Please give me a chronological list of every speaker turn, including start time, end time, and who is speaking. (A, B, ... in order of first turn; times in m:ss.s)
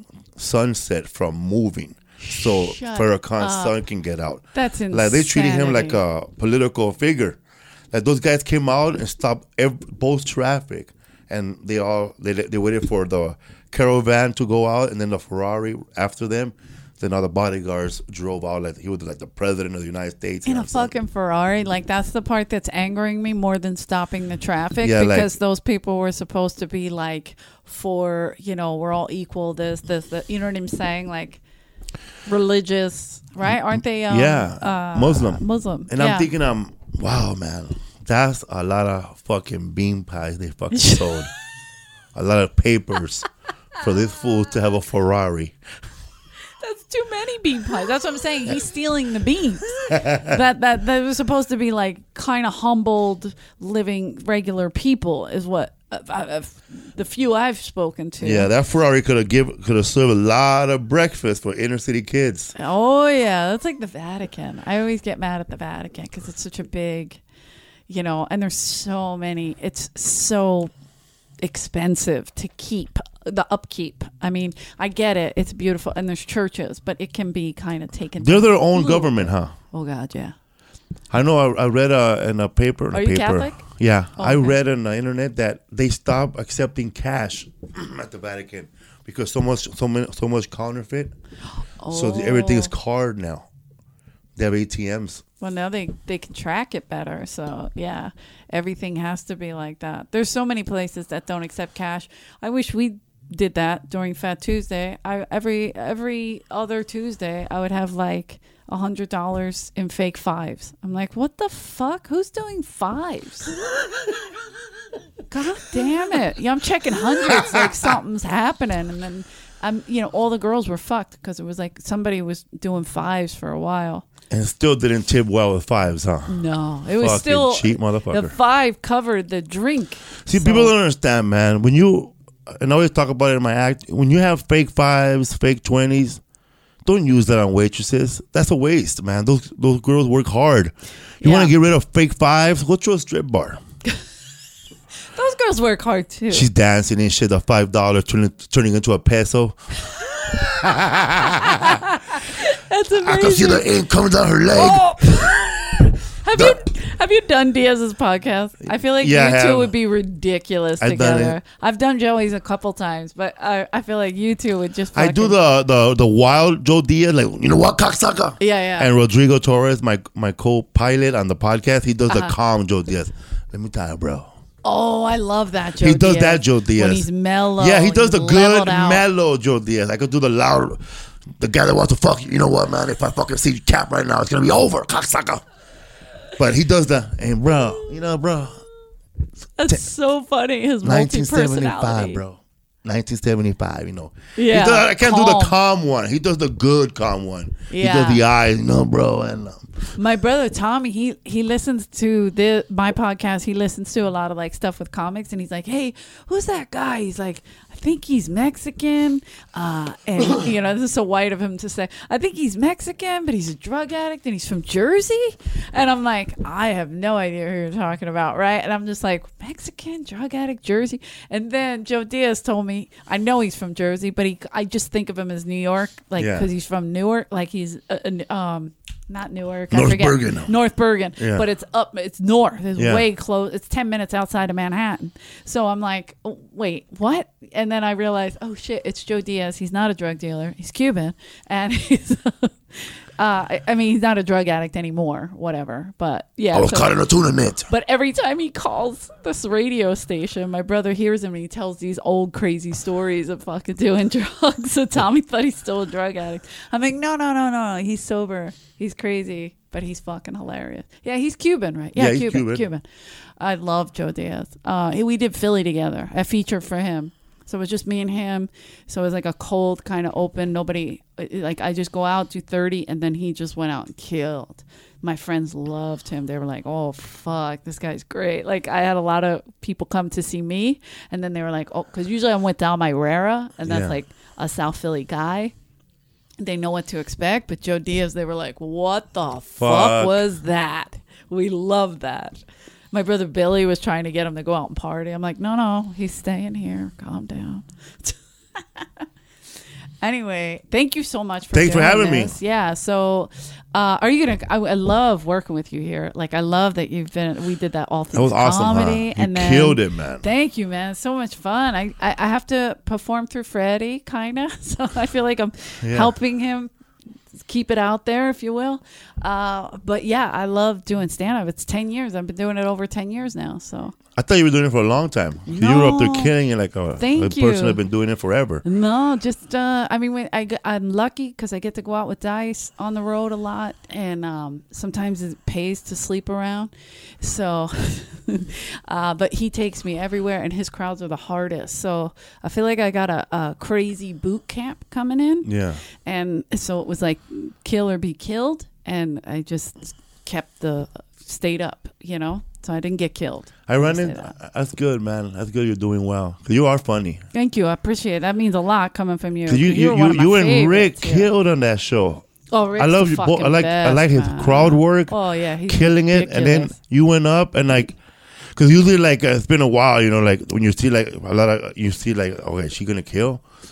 0:00.4-0:07.4 A
0:02.2-0:03.8 B
0:04.5-0:06.0 B
0:07.9-0:20.9 A
0:20.4-0:31.4 B
0:24.8-0:25.3 A
0:32.2-0:36.3 B
0:34.1-0:41.3 A
0:40.7-0:41.2 B
0:42.1-0:43.3 A
0:43.8-0:45.6 A
0:46.6-0:58.5 B
0:49.9-0:50.3 A
0:58.2-1:02.5 A
1:02.6-1:07.2 B
1:07.9-1:10.7 B
1:11.4-1:20.3 B
1:18.2-1:19.5 A
1:21.1-1:31.1 A
1:22.9-1:23.6 B
1:24.2-1:24.5 B
1:31.8-1:32.7 B
1:31.9-1:33.5 A
1:34.4-1:35.2 A
1:35.4-1:53.5 B
1:55.3-2:04.0 B
1:57.3-1:57.7 A
2:04.3-2:06.4 A
2:06.3-2:10.7 B
2:07.0-2:08.3 A
2:10.2-2:16.2 A
2:16.8-2:23.6 A
2:21.2-2:21.5 B
2:25.1-2:26.5 B
2:26.3-2:29.6 A
2:30.5-2:31.8 A
2:31.1-2:33.7 B
2:33.0-2:35.0 A
2:34.5-2:45.4 B
2:36.3-2:36.6 A
2:39.0-2:39.7 A
2:40.8-2:41.4 A
2:44.9-2:54.3 A
2:48.4-2:48.9 B
2:52.1-2:52.3 B
2:54.6-2:59.0 B
2:55.8-2:57.0 A
2:57.6-3:05.4 A
3:06.4-3:08.5 A
3:09.6-3:12.2 B
3:10.8-3:19.7 A
3:14.4-3:15.5 B
3:17.7-3:18.2 B
3:19.9-4:06.9 B
3:46.2-3:46.5 A
3:49.7-3:50.5 A
3:51.2-3:51.4 A
3:52.8-3:53.0 A
4:06.5-4:07.7 A
4:07.7-4:22.8 B
4:22.0-4:22.7 A
4:23.4-4:45.5 B
4:43.6-4:43.9 A
4:46.4-4:52.4 B
4:49.6-4:50.2 A
4:52.9-4:59.0 B
5:00.0-5:16.7 B
5:01.5-5:02.3 A
5:08.1-5:10.2 A
5:15.8-5:16.1 A
5:17.4-5:23.9 B
5:24.2-5:28.6 A
5:25.5-5:26.3 B
5:27.0-5:27.8 B
5:28.6-5:54.3 B
5:45.4-5:45.8 A
5:53.7-5:57.2 A
5:57.3-6:01.3 B
5:59.5-6:02.2 A
6:02.5-6:06.8 B
6:02.8-6:05.1 A
6:05.7-6:08.0 A
6:08.5-6:13.4 A